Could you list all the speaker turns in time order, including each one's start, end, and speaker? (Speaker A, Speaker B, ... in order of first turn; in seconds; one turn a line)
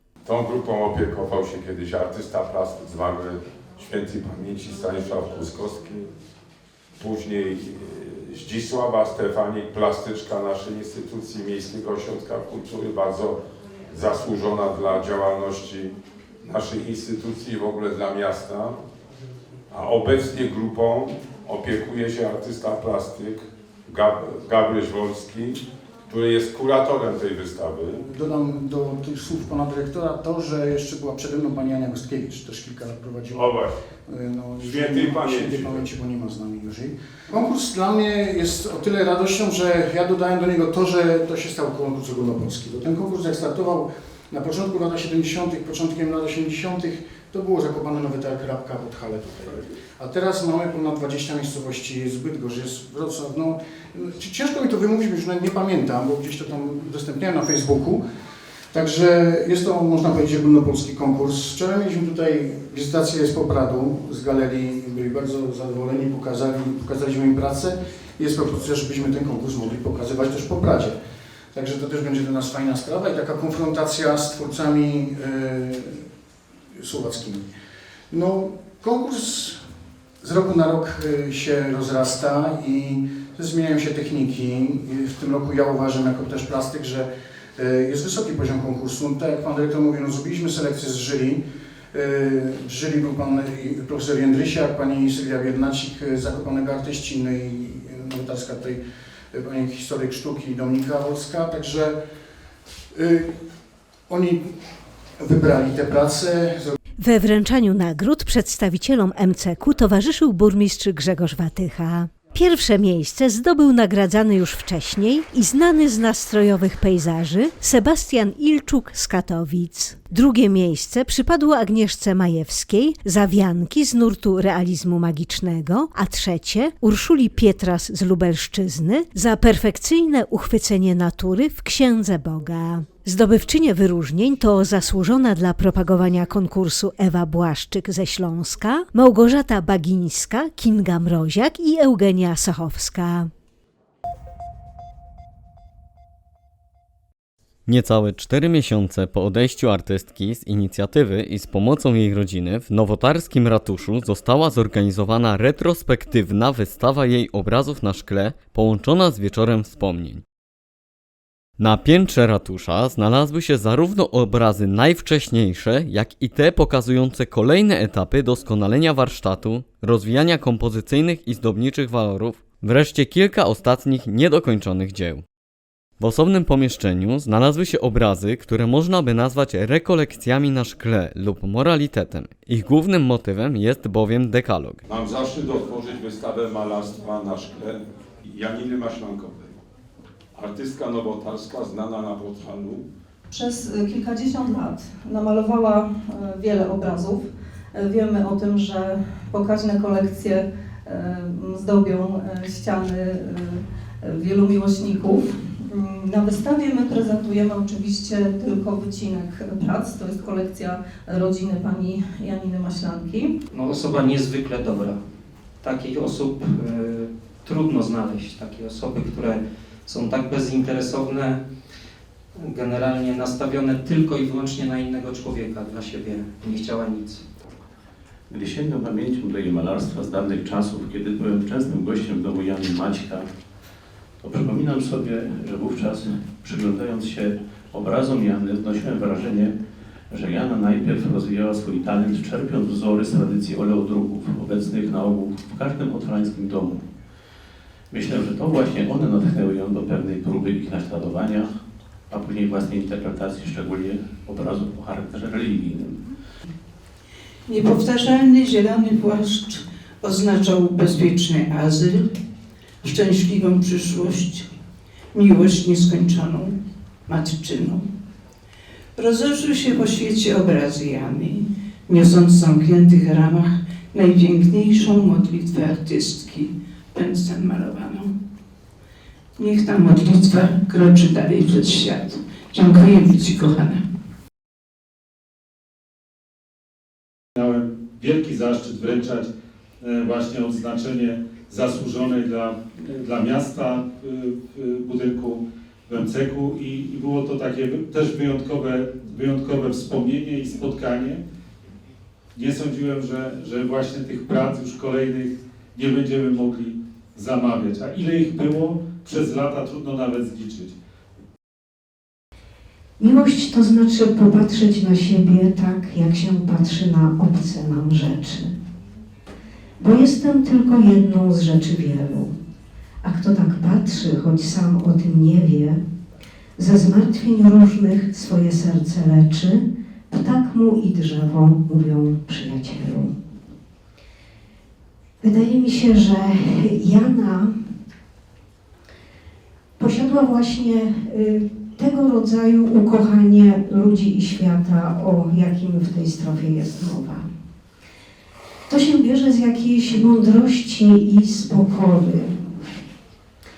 Speaker A: 0.2-6.1
Speaker A: 7.0-13.4
Speaker A: 13.9-18.8
Speaker A: 19.7-28.0
Speaker B: 28.0-58.0
Speaker A: 33.3-33.7
Speaker A: 34.6-35.9
Speaker B: 58.7-71.0
Speaker B: 71.5-76.1
Speaker B: 76.8-77.5
Speaker B: 78.1-79.6
Speaker B: 80.2-98.8
Speaker B: 99.3-102.0
Speaker B: 102.9-103.4
Speaker B: 104.1-104.5
Speaker B: 105.2-106.8
Speaker C: 107.0-143.3
Speaker D: 147.7-160.2
Speaker D: 161.6-175.2
Speaker D: 176.0-184.8
Speaker A: 184.9-189.6
Speaker A: 190.3-192.8
Speaker E: 193.3-213.3
Speaker F: 213.5-215.0
Speaker F: 215.6-221.4
Speaker F: 222.3-227.2
Speaker G: 228.3-233.3
Speaker G: 234.2-239.6
Speaker G: 240.1-246.9
Speaker G: 247.9-256.1
Speaker H: 257.5-262.1
Speaker H: 262.8-264.5
Speaker H: 265.1-266.6
Speaker H: 267.1-267.8
Speaker H: 269.0-278.1
Speaker H: 279.4-283.8
Speaker I: 287.4-289.3
Speaker I: 289.8-301.2
Speaker I: 302.3-310.7
Speaker J: 313.0-318.5
Speaker J: 319.8-322.4
Speaker J: 323.0-325.8
Speaker J: 326.6-333.1
Speaker J: 335.2-337.7
Speaker J: 339.8-347.3
Speaker J: 348.7-352.5